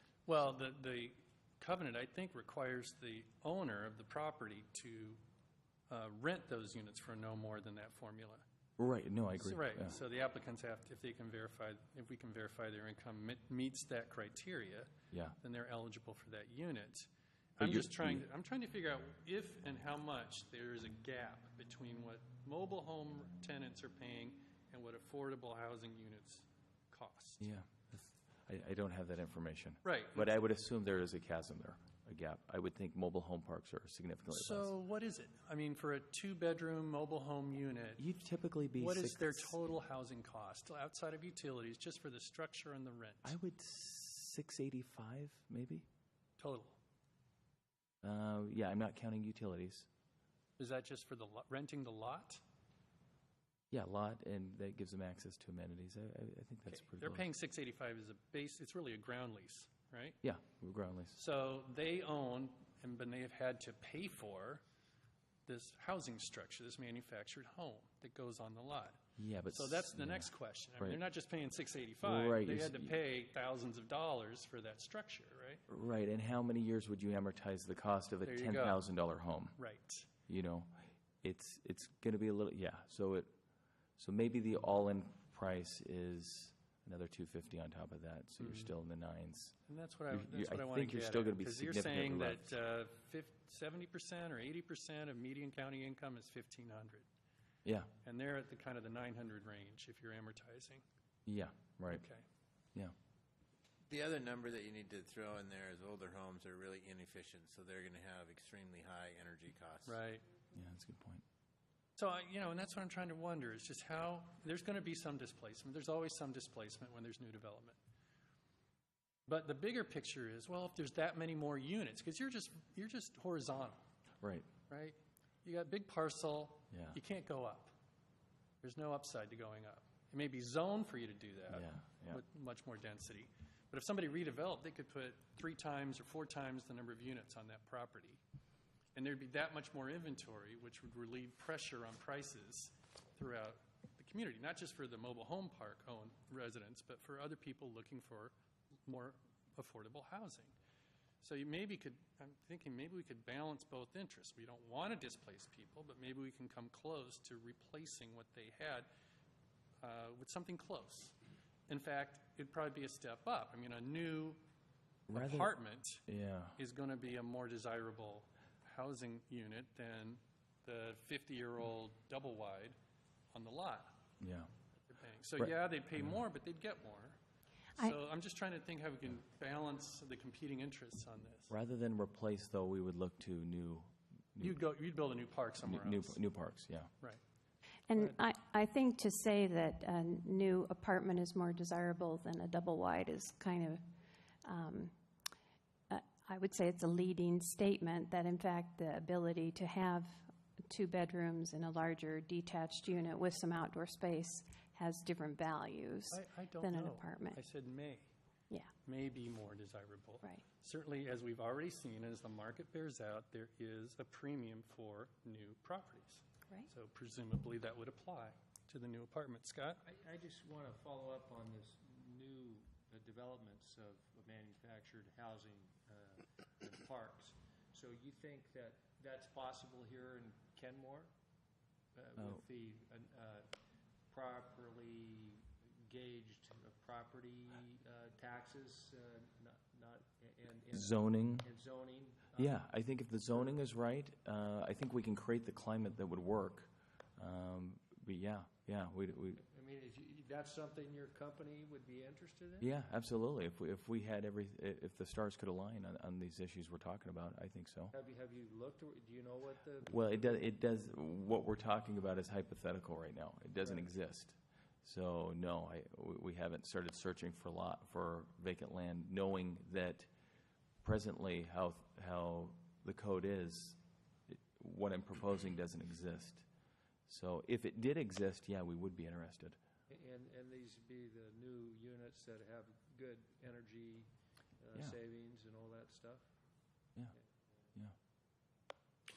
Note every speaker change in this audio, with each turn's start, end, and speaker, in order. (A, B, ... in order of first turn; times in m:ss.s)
0:00.3-0:05.2 A
0:05.9-0:08.4 A
0:08.8-0:10.0 B
0:09.4-0:17.1 A
0:17.6-0:27.5 A
0:17.6-0:18.3 B
0:27.4-0:34.7 B
0:29.8-0:30.3 A
0:34.3-0:38.0 A
0:38.0-0:39.6 B
0:38.8-0:43.3 A
0:43.2-0:45.9 B
0:46.4-0:46.8 A
0:48.0-0:49.9 B
0:50.6-0:52.4 A
0:53.7-0:57.2 B
0:56.7-1:00.2 A
1:00.2-1:01.2 B
1:01.2-1:04.6 A
1:05.5-1:15.6 A
1:09.2-1:11.0 B
1:12.0-1:13.0 B
1:15.7-1:19.6 B
1:18.2-1:18.8 A
1:19.6-1:20.1 A
1:20.3-1:23.3 B
1:24.0-1:29.6 B
1:28.4-1:28.7 A
1:29.7-1:37.1 A
1:30.1-1:32.6 B
1:37.6-1:37.9 B
1:38.0-1:40.8 A
1:41.3-1:42.0 B
1:41.9-1:42.2 A
1:43.9-1:50.0 C
1:49.9-1:50.2 A
1:50.5-1:51.2 B
1:52.0-1:57.8 A
1:59.3-2:03.8 A
2:04.2-2:04.5 B
2:04.7-2:07.8 A
2:06.7-2:07.0 B
2:08.6-2:18.2 A
2:11.5-2:12.2 B
2:19.0-2:28.3 A
2:28.9-2:30.6 A
2:31.2-2:38.9 A
2:39.8-2:41.2 A
2:41.7-2:44.4 A
2:45.1-2:45.5 B
2:45.1-2:46.0 A
2:46.1-2:46.6 B
2:46.6-2:52.8 A
2:53.3-2:54.0 A
2:54.2-2:54.5 B
2:54.9-2:57.2 A
2:57.8-3:01.5 A
3:01.5-3:04.6 B
3:04.4-3:06.2 A
3:05.6-3:06.9 B
3:07.9-3:13.8 D
3:14.5-3:14.9 D
3:15.9-3:27.4 D
3:26.1-3:28.1 A
3:28.8-3:39.8 A
3:39.8-3:51.1 E
3:52.0-3:53.5 E
3:54.1-4:02.6 E
4:00.7-4:01.5 B
4:02.4-4:09.4 B
4:09.4-4:12.7 E
4:12.6-4:17.9 B
4:17.9-4:20.4 E
4:19.9-4:30.1 B
4:23.6-4:23.9 E
4:30.8-4:36.5 B
4:37.1-4:39.6 B
4:39.9-4:44.1 E
4:44.6-4:46.2 E